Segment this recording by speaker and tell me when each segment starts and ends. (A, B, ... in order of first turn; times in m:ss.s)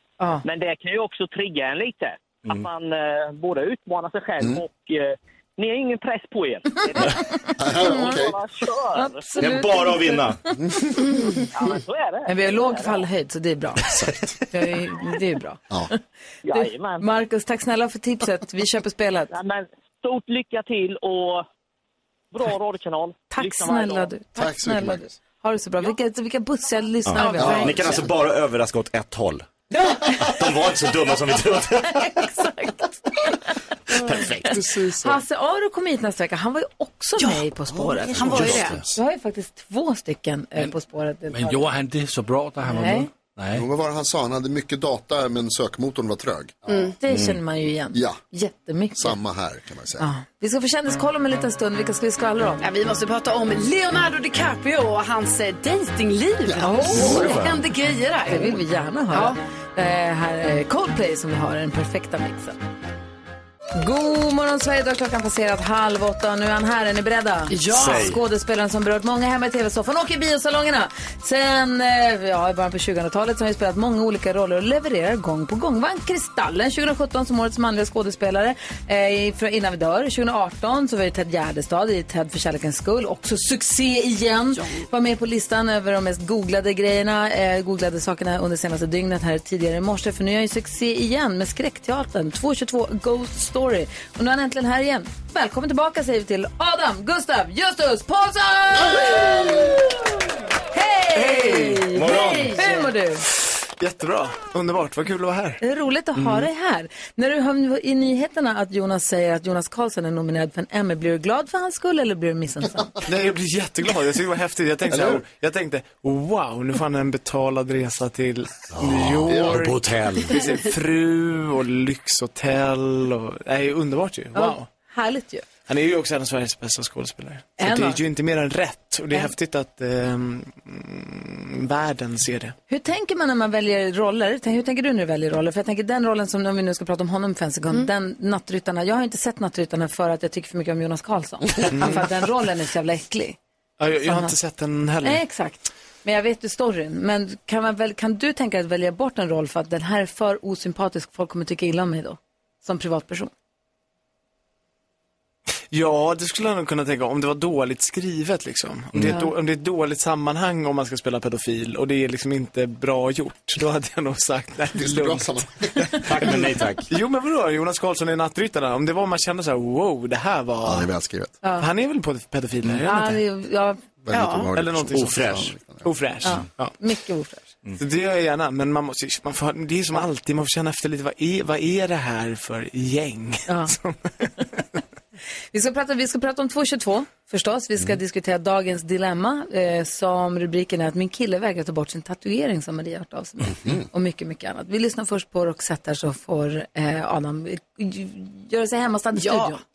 0:00.4-0:07.2 A
0:07.6-0:08.4 B
0:07.8-0:09.2 A
0:07.8-0:08.1 C
0:08.9-0:10.5 C
0:09.4-0:10.4 D
0:10.7-0:10.9 B
0:11.5-0:13.0 A
0:12.2-0:16.0 C
0:13.9-0:14.3 B
0:16.4-0:17.1 A
0:16.5-0:19.3 C
0:19.3-0:21.4 A
0:22.3-0:24.1 A
0:23.3-0:28.0 C
0:24.4-0:25.1 B
0:27.0-0:29.5 D
0:27.2-0:27.7 E
0:27.4-0:28.1 B
0:30.1-0:32.2 D
0:31.8-0:33.4 C
0:33.9-0:34.6 D
0:34.4-0:35.2 F
0:34.4-0:41.7 C
0:37.2-0:37.4 E
0:37.7-0:38.9 B
0:38.0-0:38.8 E
0:38.3-0:38.8 D
0:41.3-0:43.6 G
0:42.6-0:43.1 C
0:43.5-0:46.6 B
0:46.7-0:46.9 E
0:47.0-0:49.2 C
0:48.9-0:50.1 B
0:50.0-0:52.6 C
0:52.6-0:58.6 E
0:56.5-0:57.5 B
0:56.6-0:57.4 C
0:57.0-0:57.5 D
0:58.2-1:02.6 C
0:59.1-0:59.4 E
1:03.7-1:39.9 C
1:07.5-1:08.1 E
1:07.7-1:08.2 D
1:24.6-1:24.8 E
1:38.9-1:39.8 B
1:40.7-1:43.2 C
1:41.1-1:42.0 F
1:41.9-1:42.6 D
1:43.2-1:45.6 F
1:45.6-1:52.9 C
1:46.2-1:46.4 F
1:53.0-2:04.7 F
1:54.9-1:55.2 B
1:58.7-2:00.4 D
1:59.2-1:59.6 B
2:04.3-2:05.4 C
2:05.7-2:12.6 F
2:07.6-2:08.0 C
2:12.7-2:23.4 C
2:21.7-2:22.0 F
2:23.8-2:25.2 F
2:24.0-2:24.3 C
2:25.0-2:33.3 C
2:35.7-2:50.9 F
2:44.7-2:46.4 B
2:46.0-2:46.9 D
2:50.6-2:51.4 B
2:51.4-2:51.7 C
2:51.6-2:53.2 F
2:52.8-2:53.8 C
2:54.0-2:55.9 B
2:54.1-2:54.5 E
2:54.5-2:56.8 F
2:54.9-2:55.5 D
2:56.2-2:57.5 C
2:57.8-3:04.8 F
3:03.5-3:03.7 C
3:05.5-3:19.6 C
3:19.2-3:19.6 E